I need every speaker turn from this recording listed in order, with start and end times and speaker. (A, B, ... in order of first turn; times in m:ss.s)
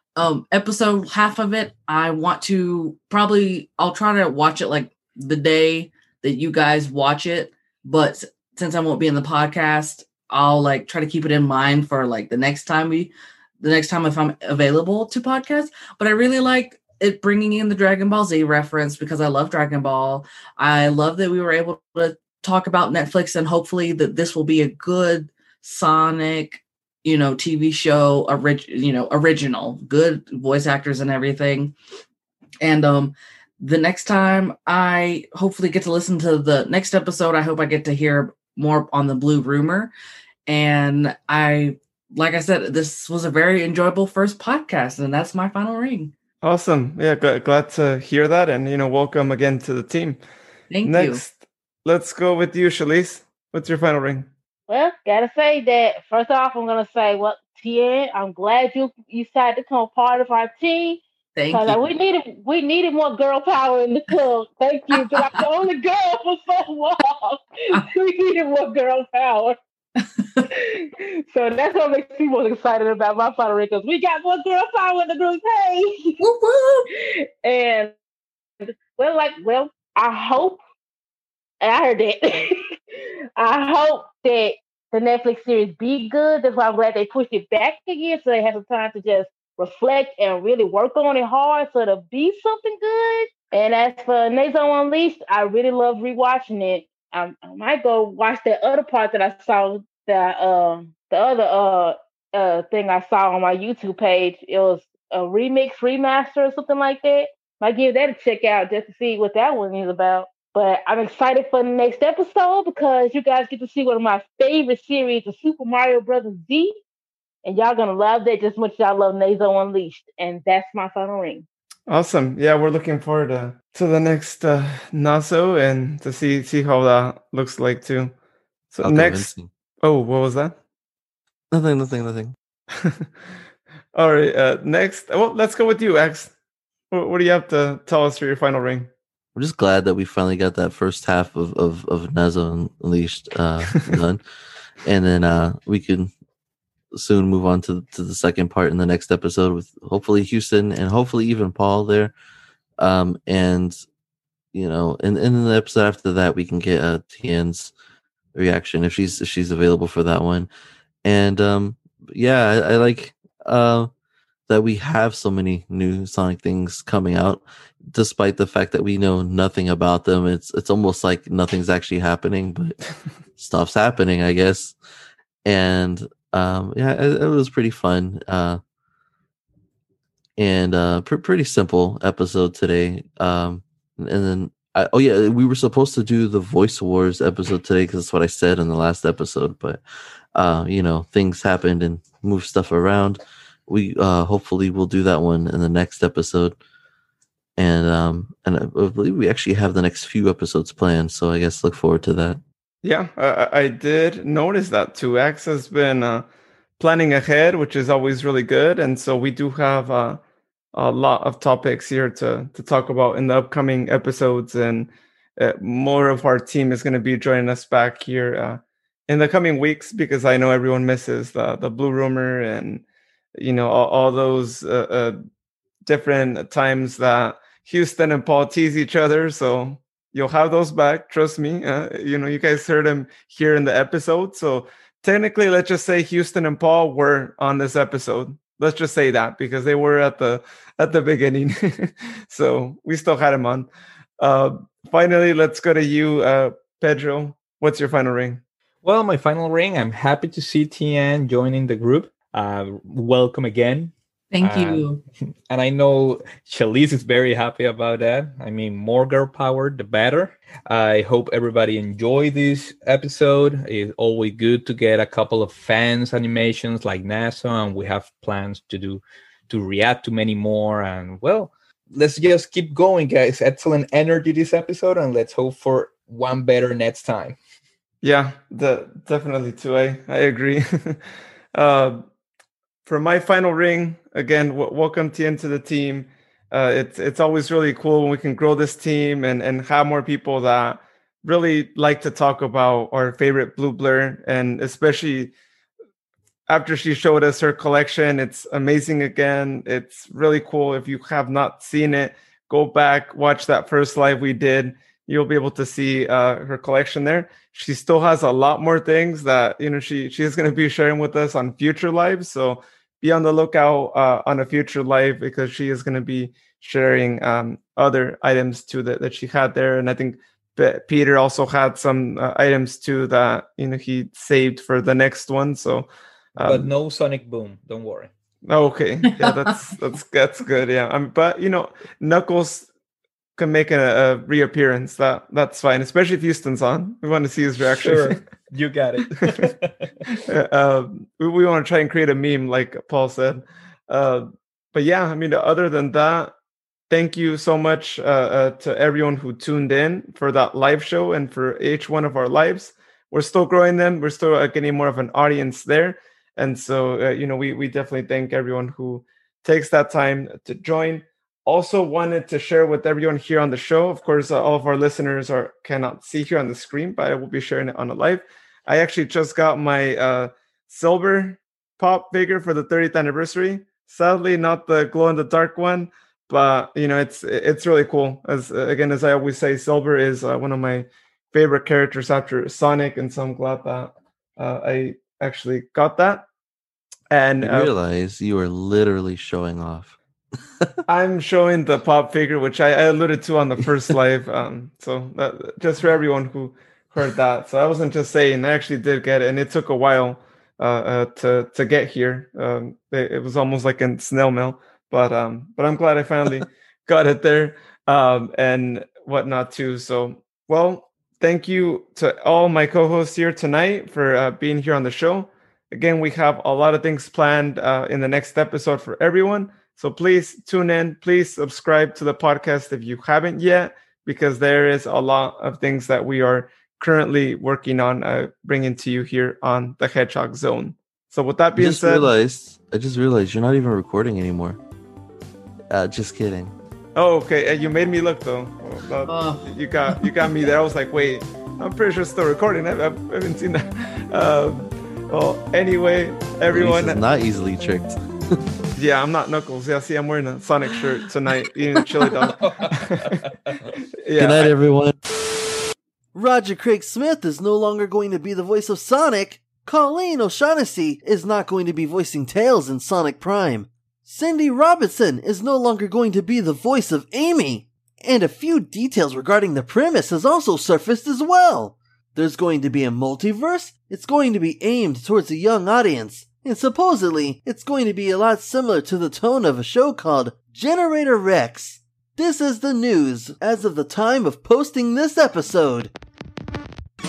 0:00.2-0:31.8 A
0:32.6-0:39.9 A
0:40.5-0:46.1 A
0:46.4-0:50.2 B
0:50.7-0:51.2 A
0:50.8-0:54.3 B
0:54.7-1:09.6 C
1:01.3-1:01.9 A
1:04.9-1:05.3 A
1:10.5-1:16.2 C
1:16.2-1:16.9 A
1:17.0-1:17.9 C
1:18.6-1:20.6 C
1:21.6-1:22.6 C
1:23.4-1:56.8 C
1:57.4-2:01.4 C
2:01.9-2:08.1 B
2:08.7-2:09.3 B
2:08.8-2:09.5 D
2:09.8-2:10.6 B
2:11.5-2:12.4 D
2:12.7-2:13.1 B
2:13.9-2:16.3 B
2:16.9-2:18.9 B
2:19.3-2:24.2 D
2:24.8-2:26.1 D
2:26.9-2:32.1 D
2:32.8-2:33.8 D
2:34.5-2:37.7 D
2:38.3-2:40.5 D
2:41.0-2:43.9 D
2:44.5-2:52.8 D
2:53.4-2:54.8 D
2:55.4-2:58.6 D
3:00.4-3:09.8 D
3:10.3-3:16.6 D
3:17.6-3:22.4 D
3:22.8-3:26.2 B
3:26.8-3:30.2 B
3:30.7-3:42.8 B
3:43.4-3:45.2 B
3:45.8-4:08.4 B
4:08.8-4:14.9 E
4:14.3-4:15.0 A
4:15.5-4:37.4 E
4:38.0-4:41.0 B
4:41.5-4:42.0 B
4:42.8-4:55.3 B
4:56.5-5:26.7 B
5:26.4-5:28.1 E
5:28.4-5:32.7 B
5:29.2-5:29.4 A
5:33.4-5:38.2 B
5:37.8-5:39.9 E
5:40.2-5:46.3 B
5:46.9-6:26.2 B
6:27.1-6:27.7 B
6:27.4-6:30.0 D
6:30.9-7:12.1 B
7:11.6-7:14.6 D
7:15.7-7:16.5 D
7:17.0-7:27.0 B
7:19.0-7:20.0 A
7:26.5-7:28.0 D
7:28.8-7:33.3 B
7:32.4-7:33.1 E
7:34.0-7:34.5 B
7:34.2-7:35.0 D
7:36.1-8:05.9 F